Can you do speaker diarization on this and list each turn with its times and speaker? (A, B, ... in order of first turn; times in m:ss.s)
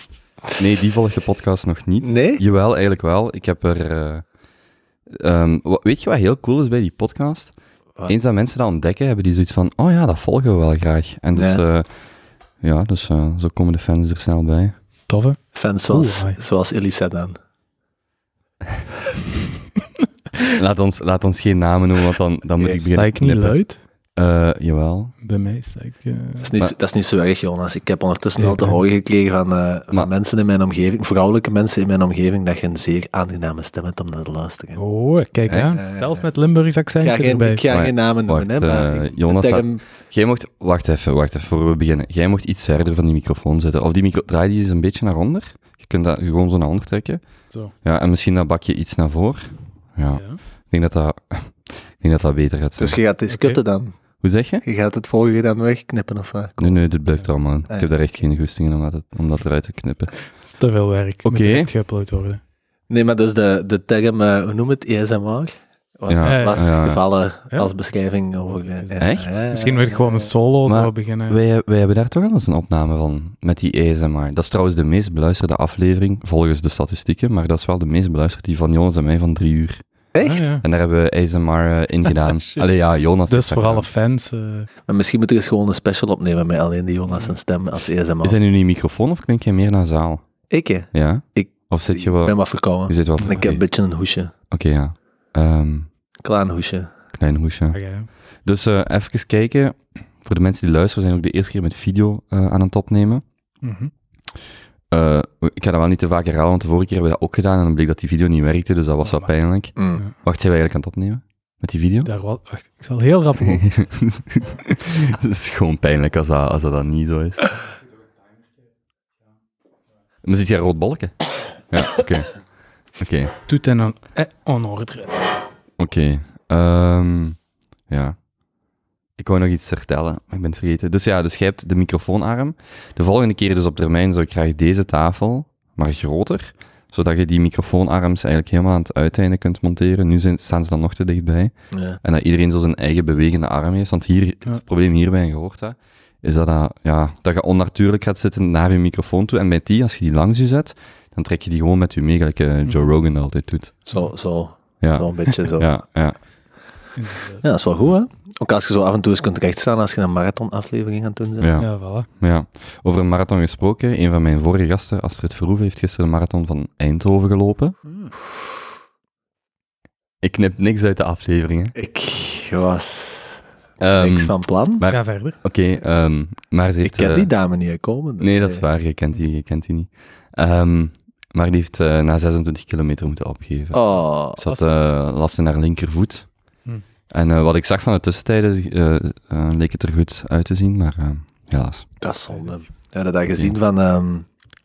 0:00.6-0:04.3 A
0:02.0-0:02.4 B
0:05.1-0:12.0 A
0:11.3-0:11.6 B
0:12.5-0:14.8 A
0:15.1-0:16.4 C
0:15.5-0:17.4 B
0:20.5-0:25.2 A
0:22.7-0:23.8 C
0:25.2-0:26.5 C
0:26.4-0:34.8 B
0:28.4-0:28.8 C
0:34.8-0:37.6 C
0:35.5-0:35.8 A
0:35.7-0:36.3 B
0:37.0-0:39.8 B
0:37.7-0:53.0 A
0:50.1-0:50.4 C
0:52.8-0:56.9 B
0:53.3-0:53.6 C
0:54.2-0:54.6 A
0:56.6-1:00.4 A
1:00.4-1:02.4 C
1:01.2-1:01.7 A
1:02.9-1:10.3 B
1:06.1-1:07.0 A
1:06.2-1:06.8 C
1:08.6-1:11.4 C
1:09.0-1:09.4 A
1:10.6-1:20.0 A
1:20.1-1:20.5 B
1:20.2-1:20.6 C
1:20.6-1:23.9 A
1:22.2-1:22.7 C
1:23.3-1:24.7 C
1:24.9-1:28.4 B
1:28.2-1:30.2 A
1:30.5-1:34.3 B
1:30.9-1:33.6 A
1:34.5-1:35.9 A
1:36.2-1:36.9 B
1:37.1-1:43.2 A
1:37.7-1:38.1 C
1:43.6-1:43.9 C
1:44.9-1:52.1 A
1:49.0-1:50.1 C
1:49.8-1:50.0 B
1:52.0-1:54.0 C
1:53.4-1:57.5 A
2:00.2-2:03.4 A
2:03.5-2:05.3 C
2:05.8-2:08.3 A
2:09.2-2:33.8 A
2:21.7-2:22.0 B
2:33.8-2:35.7 B
2:34.8-2:36.2 A
2:37.0-2:37.5 C
2:37.4-2:41.5 B
2:41.4-2:47.8 A
2:41.6-2:42.1 C
2:47.8-2:48.1 C
2:50.2-2:51.8 A
2:51.8-2:53.4 B
2:53.8-2:57.3 A
2:54.0-2:54.8 B
2:54.9-2:55.4 C
2:56.8-2:58.6 B
2:58.2-3:11.9 A
3:03.7-3:04.4 B
3:12.0-3:14.3 B